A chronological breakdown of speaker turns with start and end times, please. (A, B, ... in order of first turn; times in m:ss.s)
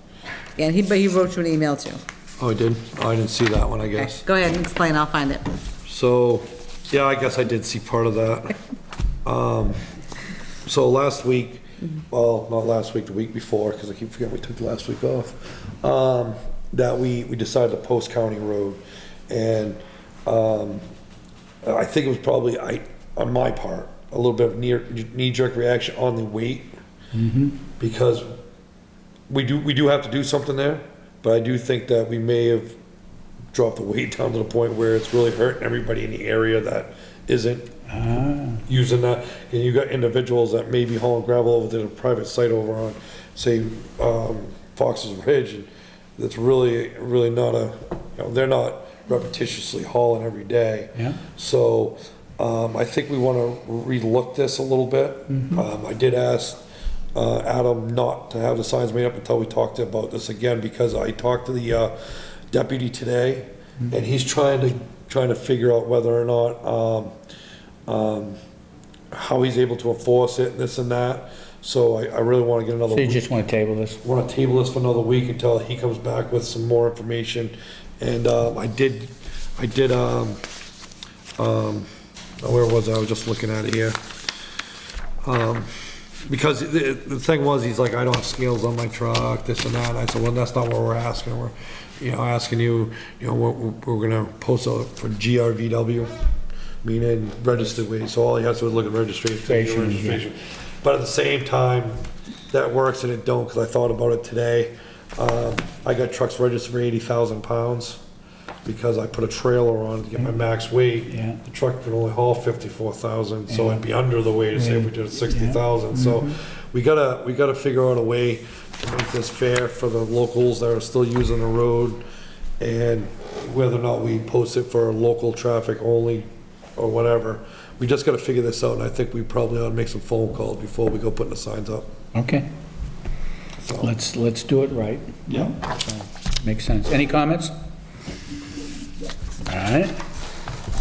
0:00.6-0:02.0 A
0:02.4-0:04.2 B
0:04.0-0:05.4 A
0:05.9-0:08.6 B
0:09.2-0:09.8 B
0:10.7-0:20.8 B
0:21.6-0:26.7 B
0:27.1-0:27.6 C
0:27.8-0:28.3 B
0:29.3-0:32.8 B
0:33.5-0:37.7 B
0:37.9-0:38.6 C
0:38.7-0:56.6 B
0:55.3-0:55.6 C
0:57.1-1:01.9 B
1:02.5-1:07.1 B
1:07.9-1:08.4 B
1:09.1-1:13.3 B
1:12.9-1:14.0 C
1:14.0-1:20.4 B
1:21.4-1:21.9 B
1:22.4-1:24.0 B
1:25.2-1:25.7 B
1:26.3-1:36.1 B
1:36.8-1:48.0 B
1:39.4-1:40.2 C
1:48.6-2:02.0 B
1:51.1-1:51.4 C
1:53.5-1:53.8 C
1:54.5-1:56.4 C
2:02.6-2:11.9 B
2:12.1-2:12.5 C
2:13.6-2:13.9 B
2:13.8-2:17.5 C
2:15.3-2:15.6 B
2:19.5-2:20.0 C